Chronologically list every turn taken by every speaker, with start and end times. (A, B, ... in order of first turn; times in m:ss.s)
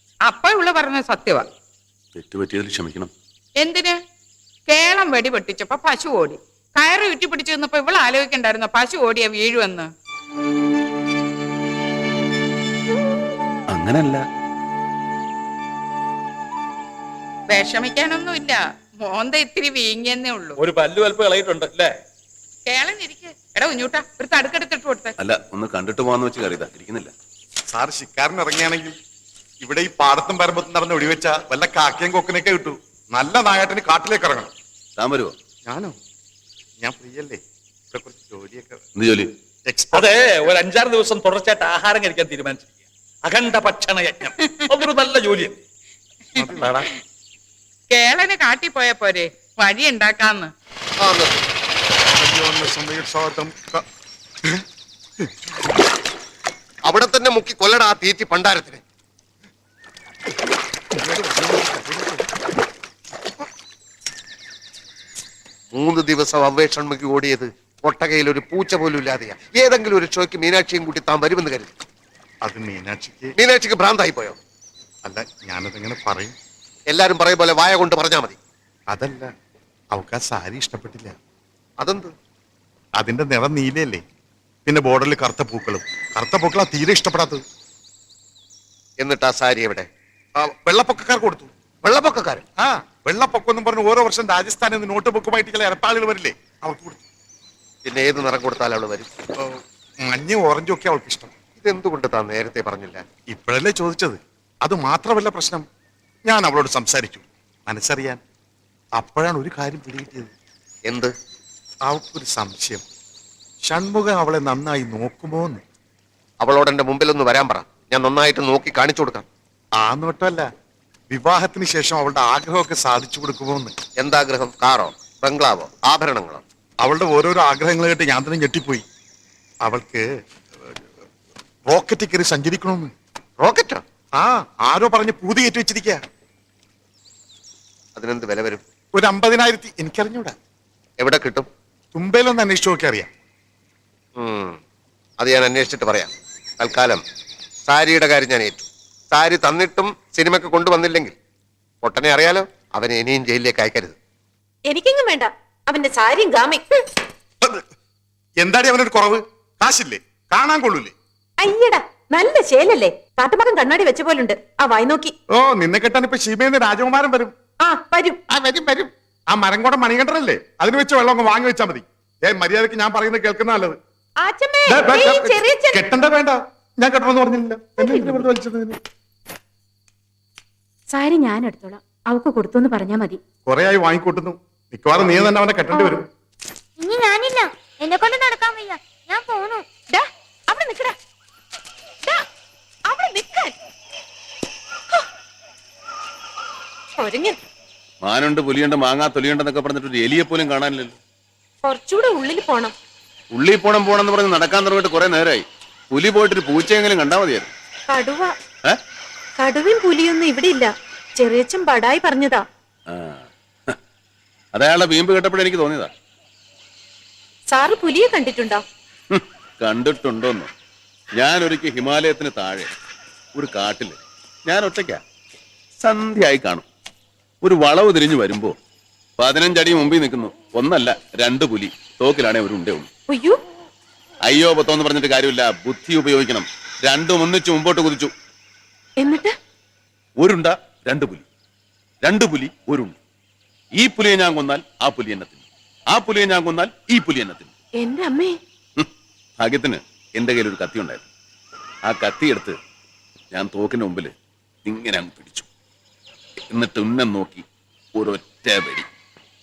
0:00.2-0:01.4 A
0:02.1-0:03.1 B
0:03.6-0:04.0 A
0:04.7-0:09.9 A
0:13.7-0:14.2 B
0:17.5-0:20.6 A
0:20.6-0:22.0 C
0:22.6-0:25.1 A
0:25.2-0:27.1 B
0:27.7-0:28.9 D
0:29.6-0:34.5 D
0:35.0-0:35.3 B
0:35.6-0:35.9 D
0:36.8-0:37.4 D
0:37.9-0:38.8 D
0:39.0-0:39.3 B
0:39.6-0:40.1 D
0:39.9-0:42.7 C
0:43.2-0:45.6 C
0:46.3-0:47.0 A
0:46.4-0:46.9 D
0:47.9-0:50.5 A
0:51.0-0:51.5 E
0:52.2-0:53.8 D
0:56.9-0:58.8 E
1:01.0-1:02.2 D
1:05.7-1:11.7 E
1:12.4-1:13.4 D
1:13.4-1:14.4 E
1:15.0-1:16.4 D
1:16.9-1:18.4 E
1:18.9-1:19.3 D
1:19.9-1:21.2 D
1:21.8-1:22.1 E
1:23.0-1:24.0 D
1:24.6-1:27.4 D
1:29.0-1:29.9 E
1:30.4-1:31.5 D
1:31.8-1:32.4 E
1:32.6-1:37.0 D
1:37.8-1:39.1 E
1:39.4-1:41.3 D
1:41.6-1:43.0 E
1:43.3-1:45.6 D
1:46.3-1:48.2 D
1:49.0-1:50.3 D
1:51.8-1:52.8 D
1:53.7-1:55.6 D
1:56.4-1:59.2 E
1:59.8-2:00.5 D
2:01.1-2:03.8 D
2:04.0-2:06.4 E
2:06.8-2:08.8 D
2:09.6-2:10.0 D
2:11.7-2:12.9 D
2:13.4-2:13.8 E
2:14.2-2:16.0 D
2:18.0-2:18.6 E
2:18.9-2:20.3 D
2:21.0-2:21.5 E
2:21.9-2:23.1 D
2:24.2-2:24.6 E
2:25.2-2:27.0 E
2:27.7-2:31.1 E
2:31.8-2:34.0 E
2:34.7-2:36.8 F
2:38.4-2:40.9 D
2:41.4-2:45.1 F
2:45.4-2:47.3 D
2:47.6-2:48.2 F
2:48.3-2:53.8 D
2:54.2-2:55.8 F
2:54.7-2:58.8 D
2:57.8-2:58.3 F
3:00.9-3:03.2 F
3:03.4-3:06.0 D
3:06.8-3:09.6 G
3:09.9-3:10.9 F
3:12.8-3:13.5 F
3:17.0-3:17.4 F
3:18.0-3:21.0 B
3:21.6-3:22.7 F
3:23.3-3:27.5 B
3:27.9-3:28.3 F
3:29.4-3:32.4 F
3:32.9-3:33.8 B
3:34.5-3:35.9 B
3:37.5-3:38.6 F
3:39.1-3:40.5 B
3:41.1-3:42.7 B
3:43.3-3:45.0 B
3:45.8-3:46.6 B
3:47.4-3:48.5 B
3:49.2-3:52.9 B
3:53.1-3:53.4 F
3:54.2-3:58.1 B
3:59.0-3:59.3 F
4:00.2-4:01.2 B
4:02.0-4:02.9 B
4:03.8-4:07.5 B
4:07.8-4:08.4 F
4:09.4-4:11.0 B
4:11.9-4:12.5 B
4:13.3-4:14.1 B
4:14.6-4:15.5 B
4:16.5-4:17.4 B
4:17.9-4:18.8 B